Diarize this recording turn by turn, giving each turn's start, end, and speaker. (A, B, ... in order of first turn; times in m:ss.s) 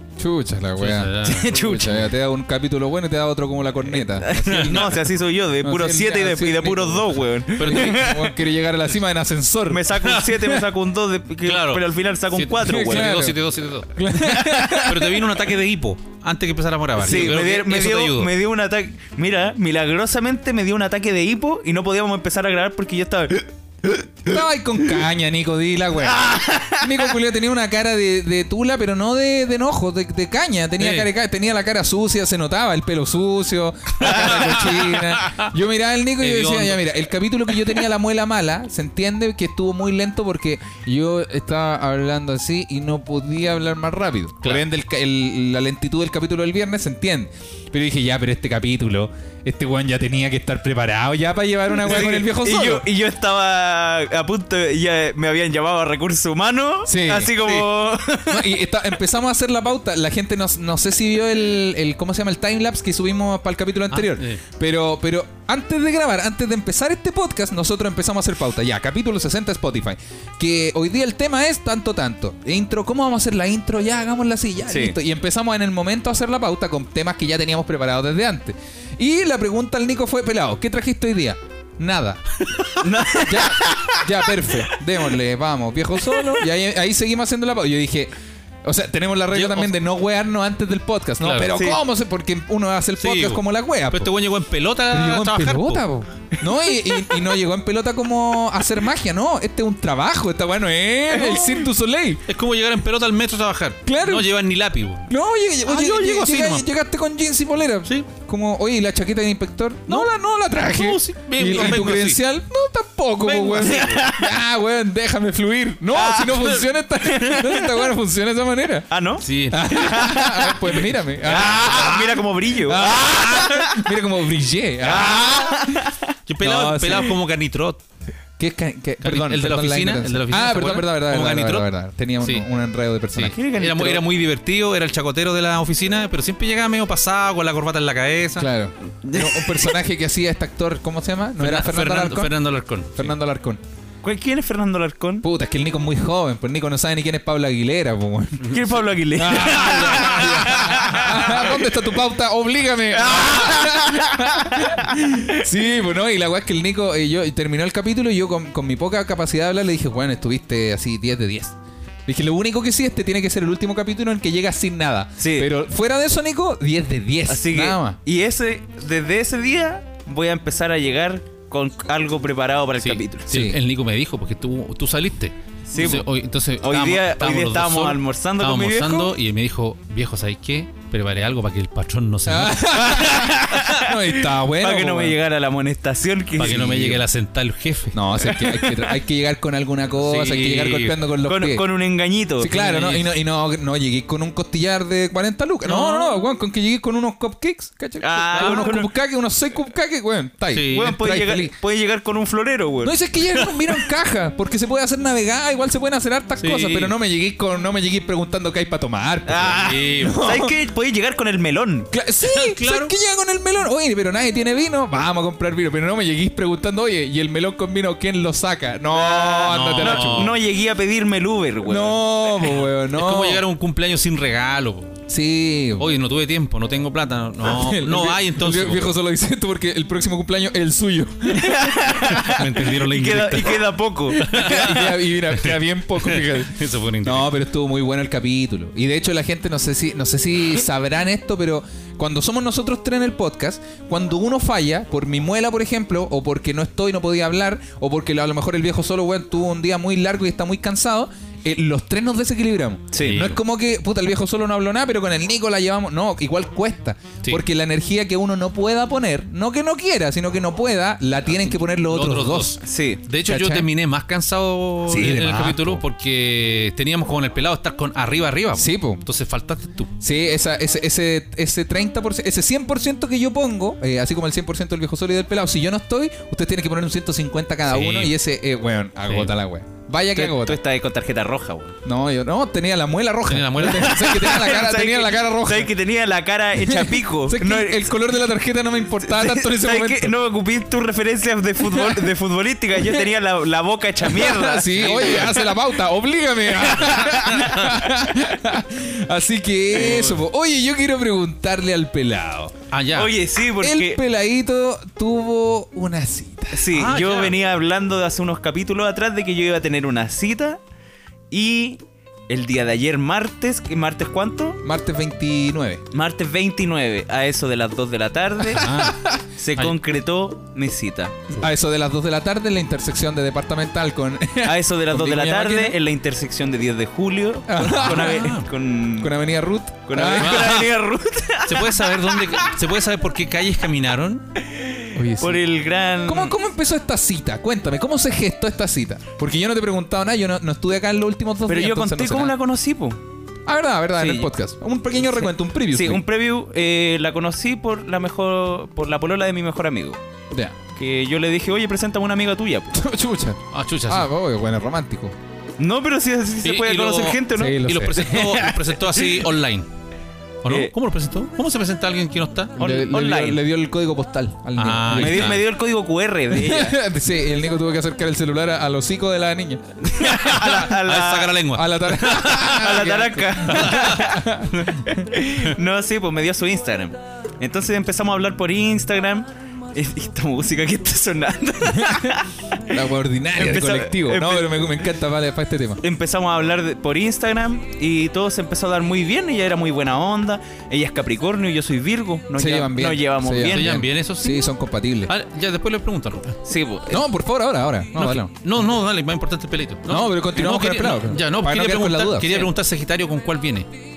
0:00.2-0:04.9 A
0:00.8-0:01.7 B
0:01.2-0:02.1 C
0:03.9-0:08.4 C
0:04.4-0:05.0 B
0:05.6-0:09.9 A
0:07.6-0:08.1 B
0:09.7-0:13.3 C
0:10.0-0:10.4 B
0:11.4-0:14.0 B
0:12.6-0:13.4 A
0:13.9-0:15.2 A
0:14.4-0:14.7 C
0:14.7-0:18.3 B
0:17.0-0:24.3 C
0:24.3-0:52.8 A
0:26.1-0:26.9 C
0:30.8-0:31.1 B
0:34.1-0:35.5 B
0:34.1-0:34.5 C
0:36.2-0:36.9 B
0:51.8-0:58.6 C
0:56.9-0:57.3 A
0:57.4-0:57.7 B
0:58.3-1:22.2 A
1:03.9-1:04.4 B
1:14.7-1:15.0 C
1:22.4-1:22.9 B
1:22.8-1:24.1 C
1:23.2-1:28.1 A
1:28.6-1:34.1 A
1:29.3-1:29.7 B
1:31.2-1:31.5 B
1:31.6-1:31.8 C
1:33.0-1:35.8 B
1:34.9-1:42.2 A
1:36.4-1:37.3 C
1:41.2-1:41.6 B
1:42.3-1:45.1 B
1:43.8-1:44.3 A
1:45.1-1:58.9 A
1:45.6-1:46.7 B
1:49.9-1:52.2 B
1:53.2-1:54.1 B
1:53.6-1:54.3 C
1:55.9-1:57.9 C
1:58.9-2:03.7 C
1:59.2-1:59.7 B
1:59.5-2:05.9 A
2:04.8-2:06.1 C
2:06.3-2:07.8 B
2:06.4-2:07.2 A
2:08.4-2:13.4 A
2:09.0-2:11.7 B
2:12.2-2:12.5 B
2:13.2-2:18.5 B
2:13.3-2:14.0 C
2:18.4-2:22.4 A
2:19.0-2:19.7 C
2:21.4-2:23.2 B
2:22.9-2:23.6 A
2:24.0-2:25.3 C
2:25.2-2:28.5 A
2:28.4-2:31.5 C
2:29.2-2:41.6 A
2:30.3-2:31.4 B
2:33.0-2:34.7 C
2:42.1-2:48.0 A
2:45.2-2:45.5 C
2:47.3-2:53.3 C
2:52.8-3:03.0 B
2:53.3-2:53.6 A
2:55.7-2:56.1 C
2:56.6-2:59.1 C
3:02.3-3:05.2 A
3:02.9-3:06.9 C
3:06.4-3:08.3 B
3:06.5-3:07.0 A
3:07.9-3:11.7 A
3:08.4-3:08.9 C
3:10.0-3:11.0 B
3:11.2-3:12.5 C
3:12.4-3:21.5 A
3:12.4-3:13.2 B
3:15.6-3:16.2 B
3:18.0-3:18.9 C
3:18.4-3:18.8 B
3:20.5-3:21.0 B
3:20.7-3:23.0 C
3:22.8-3:30.5 A
3:26.4-3:27.0 B
3:29.3-3:31.9 C
3:29.4-3:30.2 B
3:31.9-3:40.3 A
3:32.2-3:32.9 B
3:38.9-3:42.0 C
3:39.4-3:40.4 B
3:41.7-3:43.4 A
3:42.8-3:45.0 B
3:45.1-3:45.9 A
3:45.8-3:48.9 B
3:47.4-3:51.7 A
3:51.3-3:54.9 C
3:52.1-3:57.3 B
3:54.3-4:22.6 A
4:12.9-4:13.2 C
4:13.0-4:13.4 B
4:21.3-4:29.9 B
4:22.6-4:23.0 C
4:23.2-4:23.7 A
4:24.9-4:25.8 A
4:28.6-4:29.0 A
4:30.0-4:40.6 A
4:37.7-4:38.2 B
4:39.1-4:39.3 B
4:40.2-4:41.8 C
4:41.8-4:45.7 A
4:43.3-4:44.2 B
4:43.7-4:48.0 C
4:46.6-4:50.1 A
4:49.0-4:55.5 C
4:51.6-4:52.0 A
4:54.0-5:02.6 A
4:54.7-4:55.4 B
4:56.7-4:57.5 C
4:57.3-4:57.6 B
4:59.8-5:00.2 B
5:02.7-5:03.1 B
5:02.9-5:04.0 C
5:03.6-5:06.7 A
5:06.5-5:10.6 C
5:06.7-5:07.4 B
5:11.3-5:14.6 C
5:14.6-5:15.8 A
5:15.9-5:18.8 C
5:18.6-5:19.0 B
5:18.8-5:19.1 A
5:19.4-5:21.3 C
5:21.3-5:25.8 A
5:24.4-5:29.2 C
5:27.5-5:28.4 A
5:27.7-5:28.5 B
5:29.0-5:30.6 A
5:29.9-5:32.5 C
5:30.2-5:30.7 B
5:31.5-5:34.3 B
5:34.6-5:36.4 C
5:35.0-5:35.4 A
5:36.0-5:42.3 A
5:41.5-5:43.0 C
5:43.5-5:46.0 A
5:44.0-5:44.3 C
5:45.0-5:50.0 C
5:50.8-5:52.8 C
5:52.7-5:55.2 A
5:53.5-5:54.1 B
5:55.6-5:59.1 C
5:56.4-5:59.7 B
5:57.4-5:58.5 A
6:00.4-6:02.6 B
6:02.6-6:03.4 C
6:02.6-6:05.4 A
6:04.6-6:05.5 B
6:04.9-6:06.8 C
6:06.3-6:10.5 A
6:09.8-6:11.4 C
6:10.3-6:12.9 B
6:11.5-6:15.1 A
6:12.4-6:22.4 C
6:13.5-6:14.1 B
6:21.7-6:22.1 A
6:22.7-6:25.8 A
6:23.4-6:24.9 C
6:25.8-6:33.7 C
6:32.4-6:35.1 A
6:33.4-6:34.5 B
6:35.1-6:36.4 B
6:36.4-6:37.0 C
6:36.9-6:38.3 A
6:38.0-6:43.7 B
6:39.9-6:42.5 A